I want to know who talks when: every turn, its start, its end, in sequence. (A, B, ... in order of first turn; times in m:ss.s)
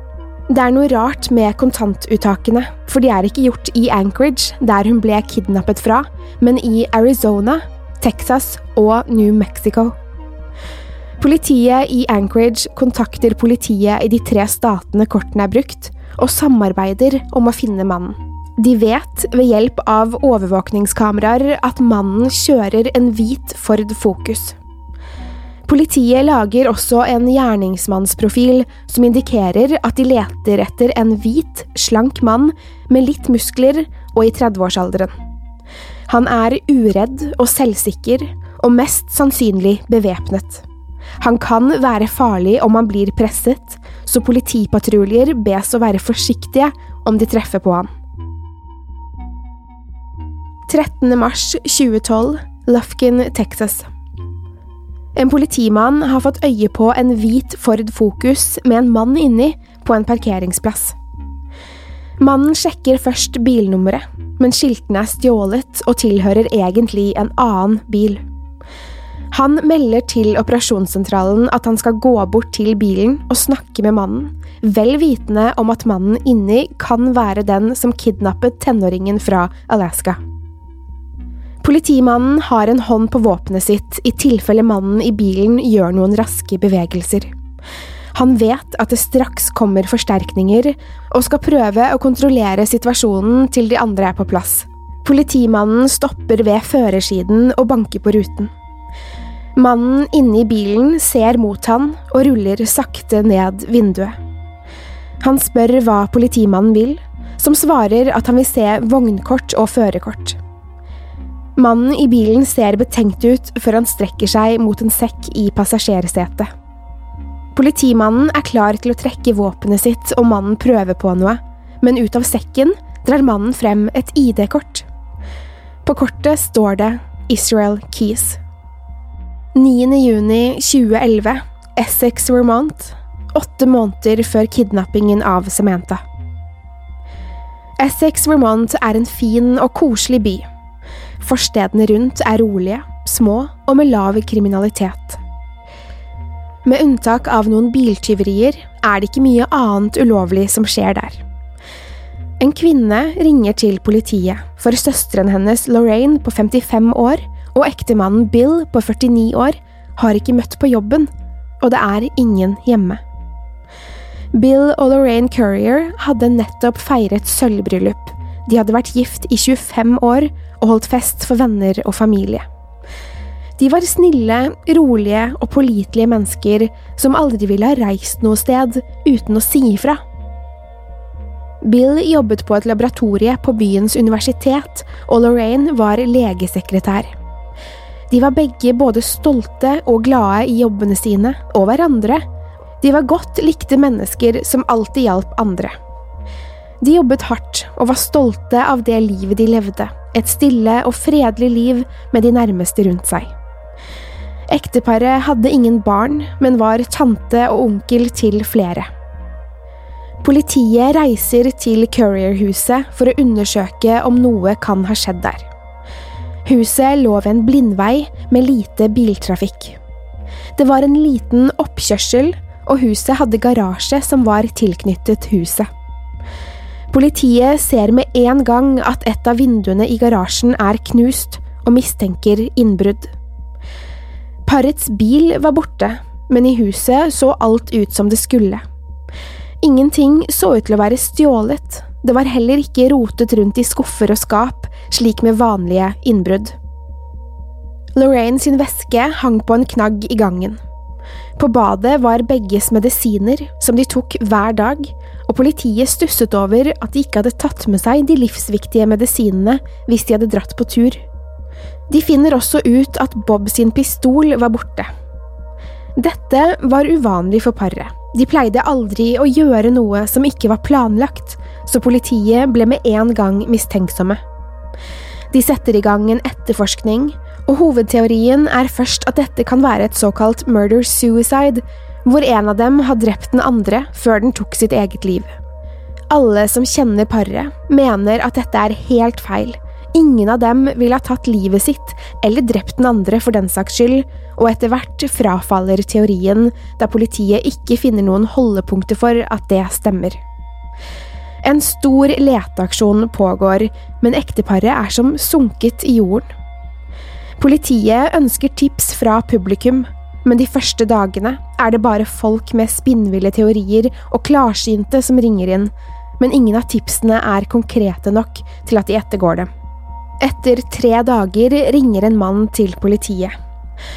0:00.5-0:09.9 A
0:11.2-0:24.6 A
0:25.7-0:35.1 A
0:36.1-0:40.6 A
0:41.2-0:47.9 A
0:50.7-0:53.8 A
0:55.2-1:01.0 A
1:02.2-1:08.2 A
1:09.3-1:20.2 A
1:21.6-1:27.3 A
1:28.1-1:38.5 A
1:39.6-1:44.2 A
1:45.2-1:50.4 A
1:51.6-1:56.5 A
1:57.5-2:04.8 A
2:05.8-2:08.4 A
2:09.5-2:16.0 A
2:17.8-2:20.4 A
2:21.2-2:25.2 A
2:26.6-2:31.2 A
2:32.4-2:41.1 A
2:41.6-2:43.0 A
2:44.3-2:52.4 A
2:53.6-3:00.0 A
3:01.6-3:07.1 A
3:08.1-3:12.2 A
3:12.8-3:15.7 A
3:16.8-3:23.3 A
3:24.5-3:28.9 A
3:30.2-3:35.5 A
3:36.4-3:39.8 A
3:40.6-3:45.7 A
3:46.9-3:53.1 A
3:54.4-3:58.6 A
3:59.6-4:06.5 A
4:08.0-4:10.6 A
4:11.4-4:21.0 A
4:21.9-4:24.9 A
4:26.0-4:34.2 A
4:35.3-4:45.3 A
4:46.1-5:00.2 A
5:01.4-5:06.3 A
5:07.4-5:19.5 A
5:20.2-5:23.3 A